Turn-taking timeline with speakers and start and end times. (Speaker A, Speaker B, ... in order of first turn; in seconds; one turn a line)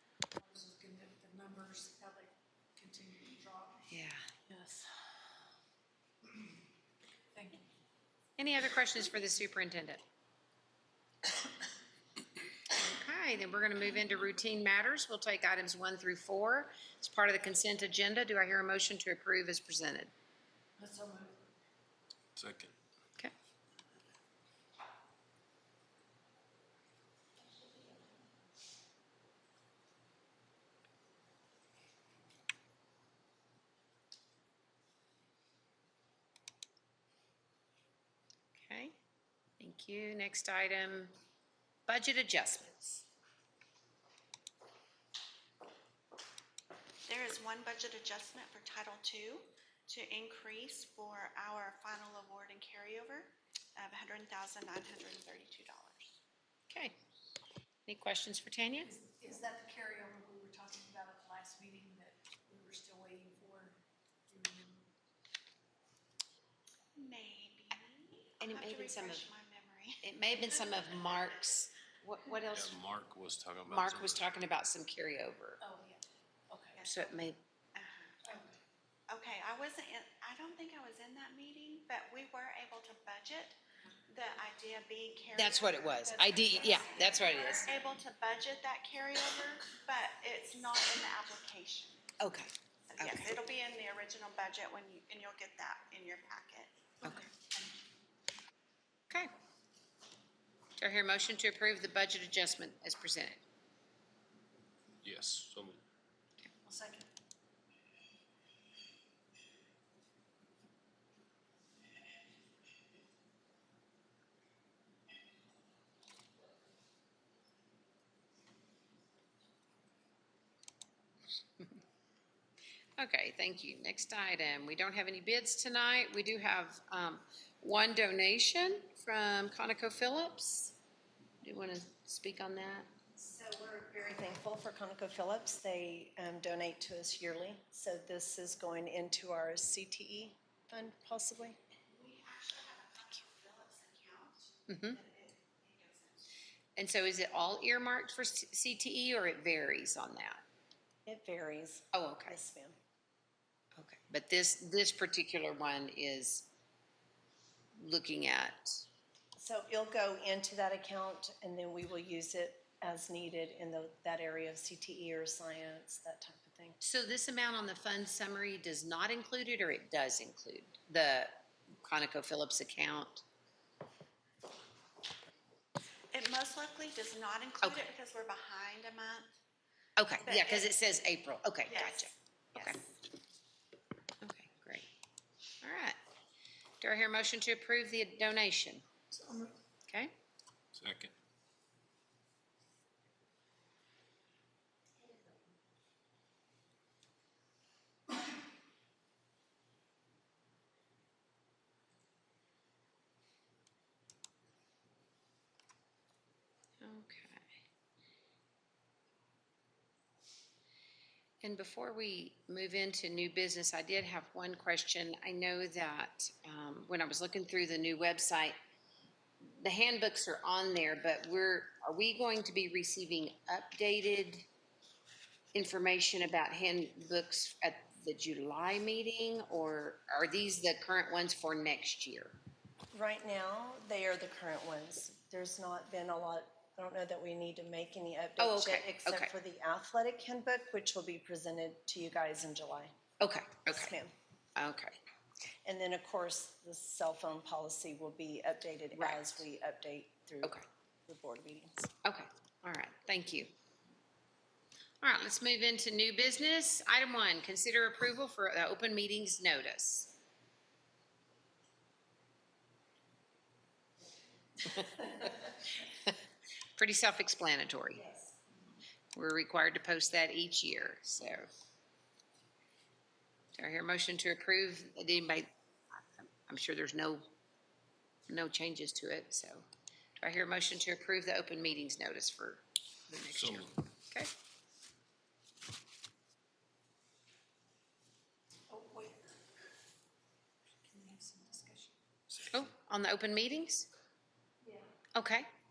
Speaker A: 0.4-3.9
Speaker B: 3.9-4.3
Speaker A: 7.3-7.6
Speaker B: 8.4-10.0
Speaker B: 12.7-20.1
Speaker A: 20.8-21.4
Speaker C: 22.4-22.8
Speaker B: 38.5-39.0
Speaker B: 39.6-41.1
Speaker B: 41.9-43.0
Speaker D: 47.1-56.2
Speaker B: 56.7-57.0
Speaker B: 57.9-58.9
Speaker A: 58.8-64.8
Speaker D: 67.0-70.0
Speaker B: 68.4-69.3
Speaker B: 70.0-72.8
Speaker C: 72.5-74.3
Speaker B: 73.7-75.6
Speaker A: 75.6-76.8
Speaker D: 76.8-77.2
Speaker B: 76.8-77.4
Speaker D: 77.8-78.4
Speaker D: 79.1-83.6
Speaker D: 84.1-87.1
Speaker B: 85.4-87.7
Speaker A: 86.2-87.6
Speaker D: 87.7-92.0
Speaker B: 92.2-93.3
Speaker D: 92.9-97.2
Speaker A: 97.1-97.8
Speaker B: 100.8-103.4
Speaker C: 105.0-105.8
Speaker A: 106.6-107.1
Speaker B: 123.0-130.8
Speaker B: 131.4-132.9
Speaker E: 133.2-141.6
Speaker D: 141.9-146.3
Speaker B: 144.7-145.0
Speaker B: 146.8-150.4
Speaker E: 151.1-152.8
Speaker B: 151.9-152.4
Speaker B: 153.8-156.5
Speaker B: 157.8-158.8
Speaker E: 159.4-166.8
Speaker B: 166.8-173.2
Speaker D: 176.1-179.3
Speaker B: 177.6-177.9
Speaker B: 180.0-182.8
Speaker D: 180.2-180.7
Speaker D: 181.7-182.8
Speaker B: 184.2-184.9
Speaker B: 185.6-186.0
Speaker B: 186.8-188.8
Speaker A: 189.1-189.6
Speaker B: 189.9-190.1
Speaker C: 190.7-191.1
Speaker B: 206.8-207.5
Speaker B: 211.4-218.6
Speaker B: 219.6-224.4
Speaker B: 225.5-232.4
Speaker E: 232.9-242.9
Speaker B: 238.4-239.3
Speaker B: 243.2-243.9
Speaker E: 243.7-244.1
Speaker B: 244.6-245.0
Speaker E: 245.7-251.9
Speaker B: 248.9-249.4
Speaker B: 252.0-253.5
Speaker B: 255.0-260.1
Speaker B: 264.6-265.5
Speaker B: 266.8-268.1
Speaker B: 269.1-271.5
Speaker B: 273.6-275.5
Speaker B: 276.2-277.3
Speaker B: 278.3-279.7
Speaker B: 280.2-284.3
Speaker C: 283.3-283.7
Speaker A: 288.7-289.2
Speaker A: 290.9-291.9
Speaker B: 292.5-293.9
Speaker B: 295.1-295.5